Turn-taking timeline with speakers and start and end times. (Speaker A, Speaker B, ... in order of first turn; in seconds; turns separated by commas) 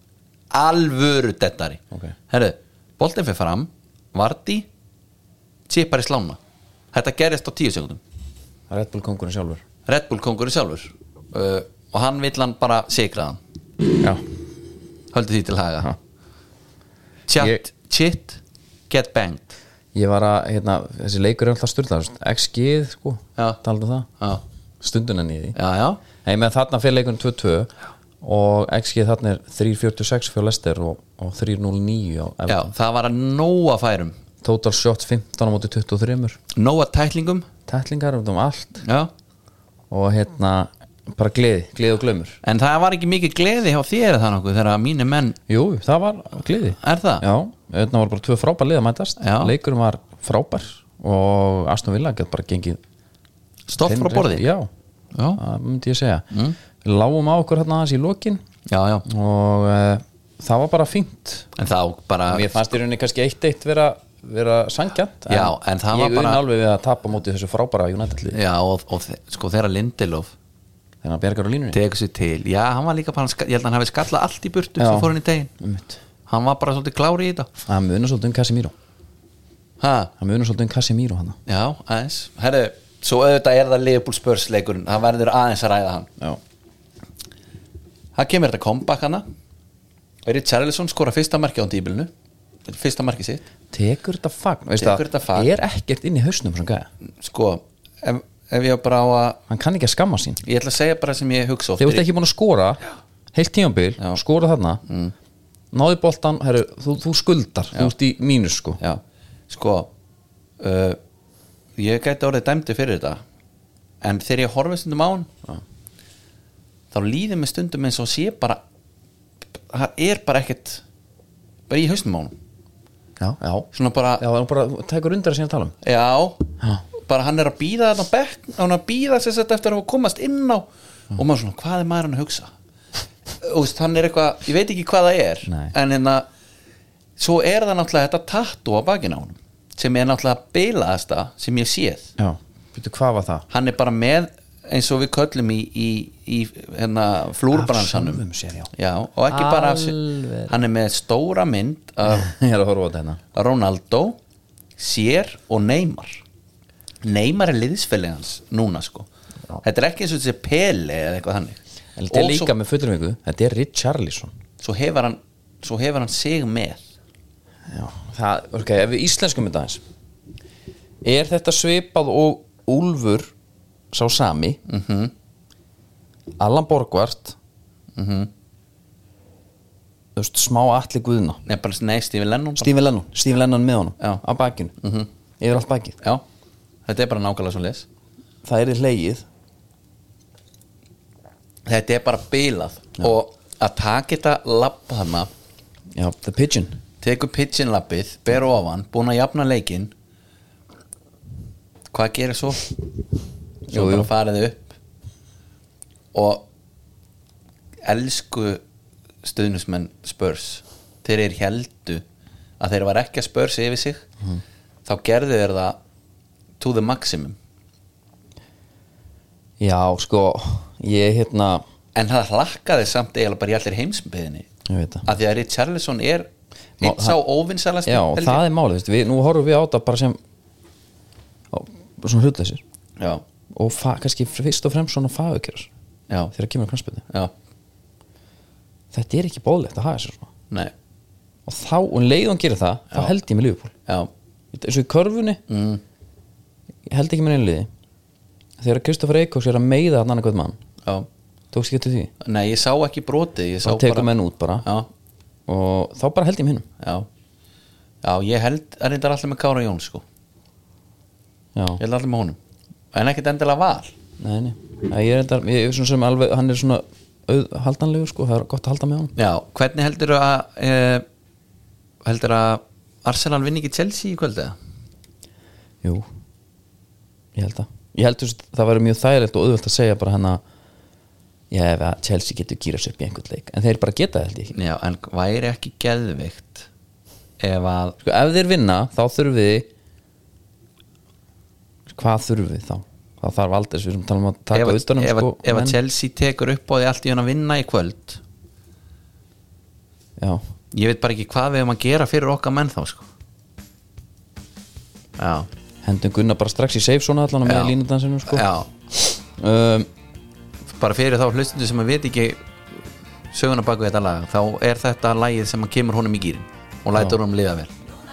Speaker A: 0.5-4.7, Speaker A: 5.7-6.4, Speaker A: 6.9-8.0, Speaker B: 8.7-9.6, Speaker A: 9.9-13.4, Speaker A: 15.1-15.9, Speaker A: 17.3-19.6, Speaker B: 17.4-17.6, Speaker B: 19.9-24.1, Speaker B: 24.8-25.6, Speaker A: 25.6-26.0, Speaker B: 26.2-32.7, Speaker A: 32.5-34.2, Speaker B: 34.4-36.4, Speaker A: 36.5-37.5, Speaker B: 37.7-38.9, Speaker A: 38.8-39.1, Speaker B: 39.9-42.4, Speaker A: 42.4-45.4, Speaker B: 45.5-52.8, Speaker A: 46.8-47.2, Speaker A: 49.2-49.6, Speaker A: 53.7-54.5, Speaker B: 53.8-54.7, Speaker A: 55.1-55.4, Speaker B: 55.4-56.3, Speaker B: 56.8-58.4, Speaker A: 58.7-59.1, Speaker B: 59.1-61.5, Speaker A: 61.6-62.6, Speaker B: 62.3-68.4, Speaker A: 65.3-66.4, Speaker A: 68.3-70.3, Speaker B: 71.0-71.8, Speaker A: 71.7-75.5, Speaker B: 74.8-76.0, Speaker A: 76.3-77.5, Speaker B: 77.6-78.7, Speaker A: 79.8-80.1, Speaker B: 80.2-81.4, Speaker A: 81.5-86.1, Speaker A: 88.2-89.2, Speaker A: 90.3-92.1, Speaker A: 92.7-93.4, Speaker B: 93.7-96.9, Speaker A: 94.8-95.5, Speaker A: 97.1-99.4, Speaker B: 99.5-100.4, Speaker A: 100.4-102.1, Speaker B: 101.8-102.8, Speaker B: 103.3-104.8, Speaker A: 104.9-105.1, Speaker B: 105.7-108.8, Speaker A: 108.8-109.9, Speaker A: 110.6-111.0, Speaker A: 111.8-113.2, Speaker A: 114.0-115.3, Speaker A: 116.9-118.6, Speaker A: 119.7-120.8, Speaker A: 121.7-122.3, Speaker B: 123.2-125.8, Speaker A: 123.7-124.2, Speaker A: 125.8-132.5, Speaker A: 133.4-136.3, Speaker B: 135.5-135.7, Speaker A: 137.2-142.1, Speaker B: 142.2-143.5, Speaker A: 143.5-152.3, Speaker B: 147.5-148.7, Speaker B: 149.3-150.5, Speaker B: 152.1-153.2, Speaker A: 153.3-154.2, Speaker A: 154.8-156.2, Speaker A: 157.0-159.1, Speaker A: 159.6-162.5, Speaker B: 162.0-164.3, Speaker A: 164.6-166.9, Speaker B: 167.7-169.8, Speaker B: 171.0-173.3, Speaker B: 173.9-174.6, Speaker A: 174.7-175.1, Speaker B: 176.4-177.4, Speaker A: 178.0-178.3, Speaker B: 180.2-181.4, Speaker A: 181.5-182.7, Speaker B: 182.6-184.8, Speaker A: 184.8-185.1, Speaker B: 185.4-186.0, Speaker A: 186.9-187.9, Speaker B: 188.4-189.2, Speaker A: 191.7-195.3, Speaker B: 195.9-196.8, Speaker A: 197.0-199.9, Speaker A: 201.9-202.7, Speaker B: 203.7-204.1, Speaker A: 203.7-204.7, Speaker A: 206.1-206.5, Speaker A: 207.8-208.6, Speaker A: 209.2-212.0, Speaker A: 212.6-214.1, Speaker A: 214.9-215.8, Speaker A: 216.6-217.4, Speaker B: 219.6-221.6, Speaker A: 222.0-224.5, Speaker B: 224.7-225.1, Speaker A: 225.1-228.4, Speaker B: 226.8-227.2, Speaker B: 227.9-230.2, Speaker B: 231.5-232.6, Speaker B: 233.5-235.7, Speaker B: 236.3-237.1, Speaker B: 238.9-240.3, Speaker B: 241.5-243.7, Speaker B: 244.5-245.4, Speaker A: 245.5-245.8, Speaker B: 246.9-247.7, Speaker B: 248.6-250.6, Speaker B: 251.5-252.1, Speaker A: 252.2-254.1, Speaker B: 253.6-254.7, Speaker A: 254.6-254.9, Speaker B: 255.5-256.7, Speaker A: 256.8-257.1, Speaker A: 258.0-260.0, Speaker B: 261.6-261.8, Speaker A: 261.8-262.4, Speaker A: 262.9-263.9, Speaker B: 264.2-269.1, Speaker A: 269.2-271.1, Speaker A: 272.0-274.6, Speaker B: 277.4-280.4, Speaker B: 281.5-284.5, Speaker A: 284.5-286.7, Speaker A: 287.4-288.0, Speaker B: 288.0-289.7, Speaker B: 291.9-295.8, Speaker A: 294.5-298.2, Speaker B: 300.2-300.4, Speaker A: 300.7-303.1, Speaker A: 305.2-305.5, Speaker B: 305.8-308.5, Speaker A: 307.4-307.8, Speaker A: 308.3-308.7, Speaker B: 309.1-309.9, Speaker A: 310.8-312.4, Speaker A: 313.3-317.7